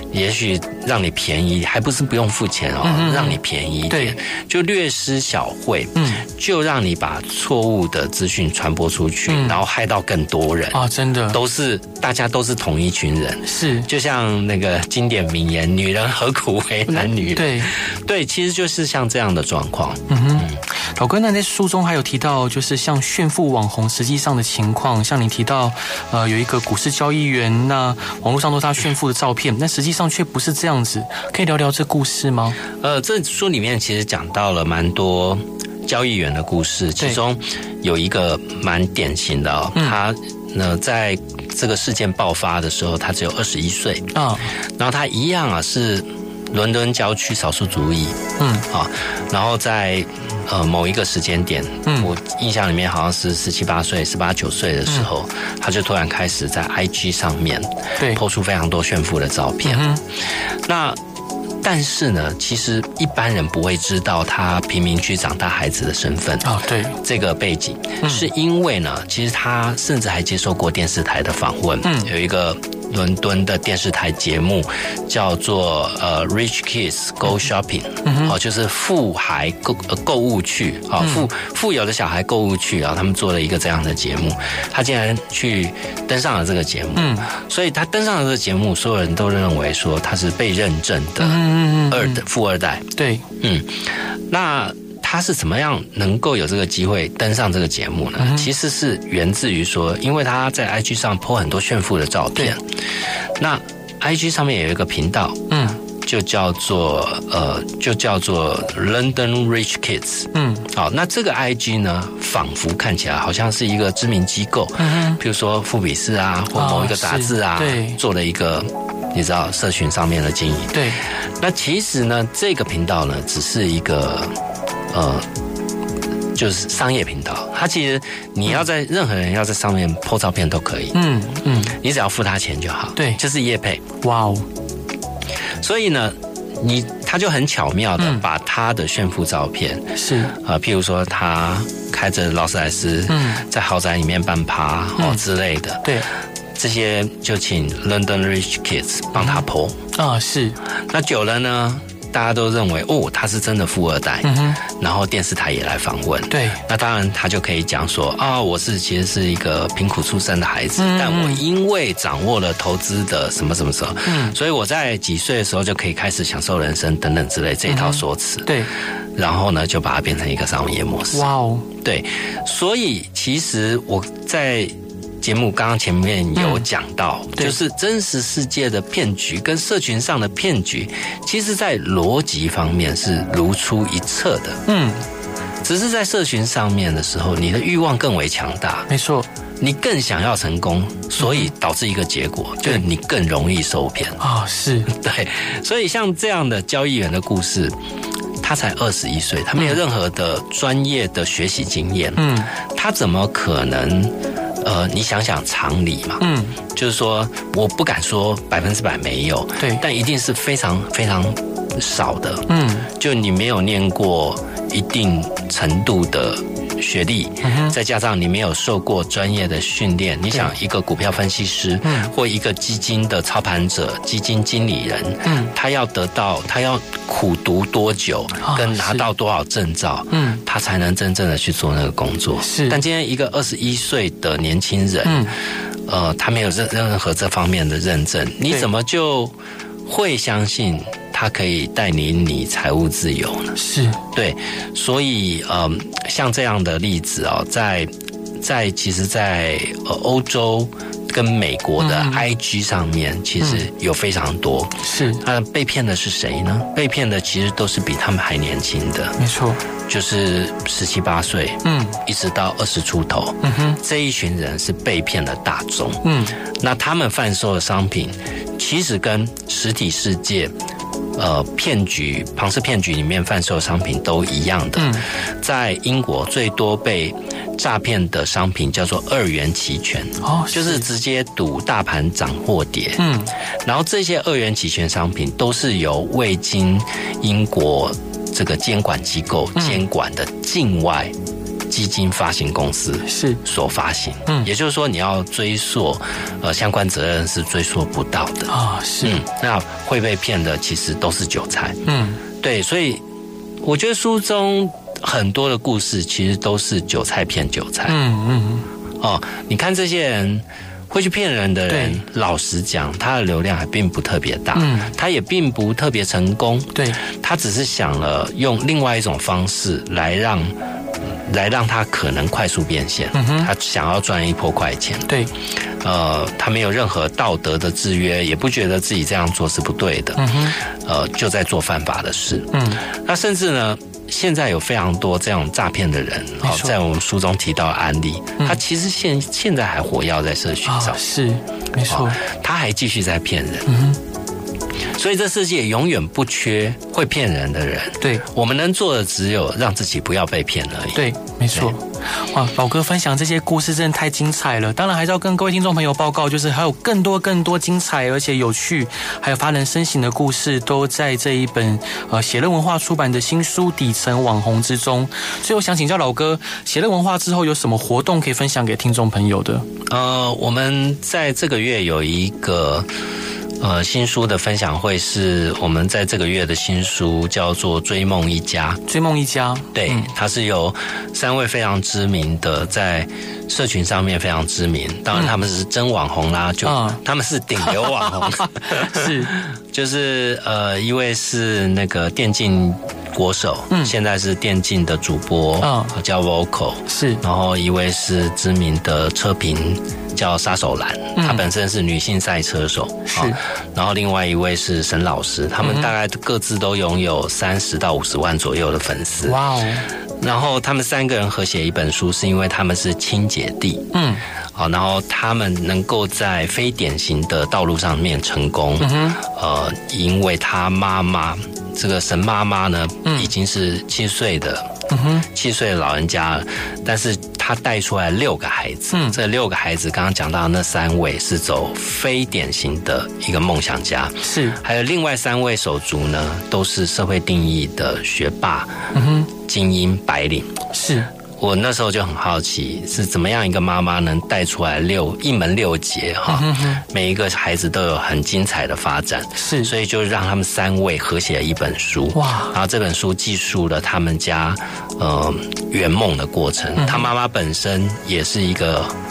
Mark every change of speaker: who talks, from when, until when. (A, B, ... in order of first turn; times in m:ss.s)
0:00.1-0:10.8 A
0:02.8-0:04.2 B
0:06.0-0:06.3 B
0:09.3-0:09.6 B
0:10.7-0:11.4 B
0:11.3-0:20.6 A
0:13.4-0:13.9 B
0:16.9-0:17.7 B
0:20.1-0:32.6 B
0:32.8-0:44.1 A
0:44.1-0:44.5 B
0:44.8-0:59.9 A
0:48.4-0:48.7 B
0:59.6-1:00.0 B
1:00.6-1:01.0 A
1:01.6-1:42.6 A
1:06.4-1:07.0 B
1:11.8-1:12.1 B
1:18.0-1:18.4 B
1:21.0-1:21.3 B
1:27.0-1:27.3 B
1:31.2-1:32.2 B
1:33.0-1:33.2 B
1:38.2-1:38.5 B
1:43.4-2:00.8 A
1:45.5-1:45.8 B
1:50.3-1:50.7 B
1:54.8-1:55.2 B
1:56.5-1:58.0 B
2:00.7-2:01.0 B
2:01.4-2:04.3 A
2:04.9-2:05.3 A
2:06.3-2:11.0 A
2:10.9-2:11.8 B
2:11.7-2:13.8 A
2:13.0-2:13.2 B
2:14.0-2:14.4 B
2:15.6-2:26.0 A
2:19.9-2:20.4 B
2:23.1-2:23.4 B
2:25.0-2:25.2 B
2:26.5-2:29.8 A
2:29.2-2:30.6 B
2:30.9-2:48.5 A
2:34.2-2:34.6 B
2:36.3-2:36.6 B
2:40.8-2:41.4 B
2:44.0-2:44.4 B
2:47.7-2:48.7 B
2:49.2-2:51.3 A
2:51.1-2:51.7 B
2:51.8-3:04.6 A
2:56.4-2:56.6 B
3:04.7-3:05.0 B
3:05.6-3:08.9 A
3:08.9-3:09.3 B
3:09.6-3:14.2 A
3:11.2-3:11.5 B
3:14.2-3:14.9 B
3:14.9-3:17.7 A
3:18.4-3:55.3 A
3:22.2-3:22.5 B
3:26.2-3:26.6 B
3:29.6-3:29.8 B
3:32.5-3:32.9 B
3:37.4-3:37.7 B
3:41.8-3:42.1 B
3:45.2-3:45.5 B
3:48.4-3:49.0 B
3:50.1-3:50.4 B
3:52.4-3:52.8 B
3:55.0-3:55.3 B
3:55.9-3:59.3 A
3:59.8-4:03.5 A
4:03.5-4:04.0 B
4:04.1-4:07.9 A
4:08.4-4:19.1 A
4:11.8-4:12.2 B
4:14.8-4:15.2 B
4:19.2-4:19.6 B
4:19.9-4:26.0 A
4:21.6-4:22.0 B
4:23.4-4:23.8 B
4:26.0-4:26.4 B
4:26.6-4:30.5 A
4:31.2-4:43.0 A
4:34.8-4:35.0 B
4:40.2-4:40.8 B
4:43.0-4:43.3 B
4:43.6-4:51.1 A
4:51.7-4:58.5 A
4:53.0-4:53.4 B
4:58.5-4:59.2 B
4:59.0-5:01.8 A
5:01.9-5:02.2 B
5:02.4-5:03.0 A
5:03.6-5:08.0 A
5:07.9-5:08.7 B
5:09.0-5:20.5 A
5:11.7-5:12.0 B
5:14.5-5:14.9 B
5:16.7-5:17.0 B
5:21.2-5:25.1 A
5:23.1-5:23.5 B
5:25.8-5:41.0 A
5:30.2-5:30.6 B
5:32.5-5:32.8 B
5:36.4-5:36.7 B
5:40.6-5:42.2 B
5:41.9-5:43.7 A
5:43.7-5:44.0 B
5:44.9-5:51.0 A
5:50.9-6:09.7 B
6:09.9-6:12.8 A
6:13.6-6:18.8 A
6:18.9-6:20.1 B
6:19.7-6:49.4 A
6:26.6-6:27.0 B
6:27.6-6:29.4 B
6:35.6-6:36.0 B
6:36.9-6:37.2 B
6:41.2-6:41.4 B
6:43.1-6:43.4 B
6:45.6-6:45.9 B
6:49.2-6:49.9 B
6:50.2-6:53.9 A
6:53.9-6:54.2 B
6:54.5-7:20.6 A
6:58.8-6:59.2 B
7:04.9-7:05.2 B
7:14.2-7:14.6 B
7:18.9-7:19.3 B
7:20.7-7:21.1 B
7:21.4-7:38.9 A
7:26.3-7:26.8 B
7:29.4-7:29.7 B
7:32.1-7:32.5 B
7:36.8-7:37.1 B